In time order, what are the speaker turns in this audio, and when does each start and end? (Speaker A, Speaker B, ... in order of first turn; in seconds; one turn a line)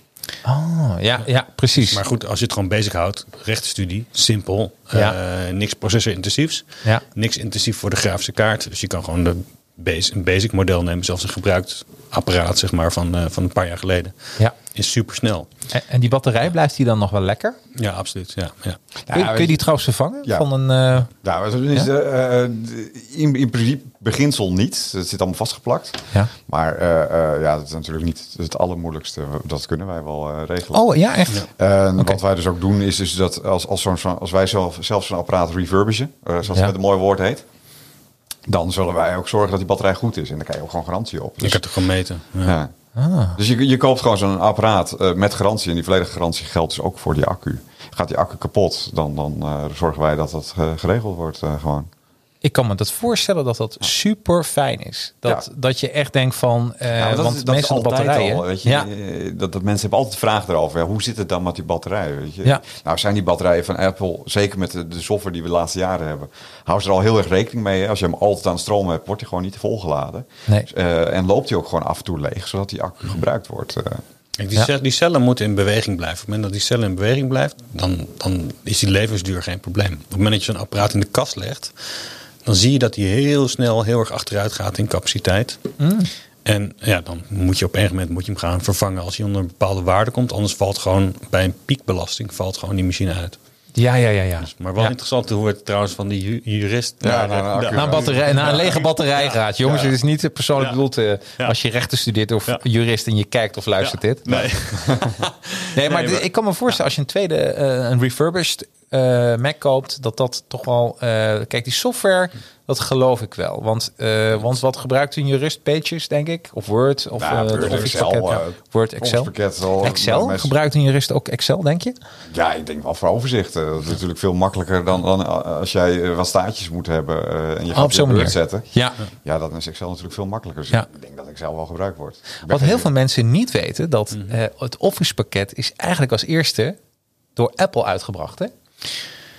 Speaker A: 0.5-2.0
Speaker B: 1.8-15.5
Speaker A: 15.7-17.6
Speaker B: 17.8-18.8
Speaker C: 19.1-19.6
Speaker A: 19.1-21.1
Speaker C: 21.1-30.8
Speaker A: 30.7-31.5
Speaker C: 31.4-37.5
Speaker C: 38.5-41.6
Speaker B: 41.4-42.6
Speaker C: 42.4-42.7
Speaker A: 43.0-43.4
Speaker C: 43.4-51.9
Speaker A: 52.4-58.9
Speaker C: 57.0-74.0
Speaker B: 74.4-85.6
Speaker A: 85.8-86.1
Speaker B: 86.5-93.4
Speaker A: 93.8-94.9
Speaker B: 94.4-99.9
Speaker C: 97.0-98.2
Speaker A: 97.7-104.3
Speaker B: 103.9-106.2
Speaker C: 104.3-105.2
Speaker A: 105.7-122.0
Speaker C: 117.2-120.5
Speaker C: 122.3-128.7
Speaker A: 127.7-129.0
Speaker C: 129.2-132.9
Speaker A: 132.5-136.8
Speaker A: 137.4-138.5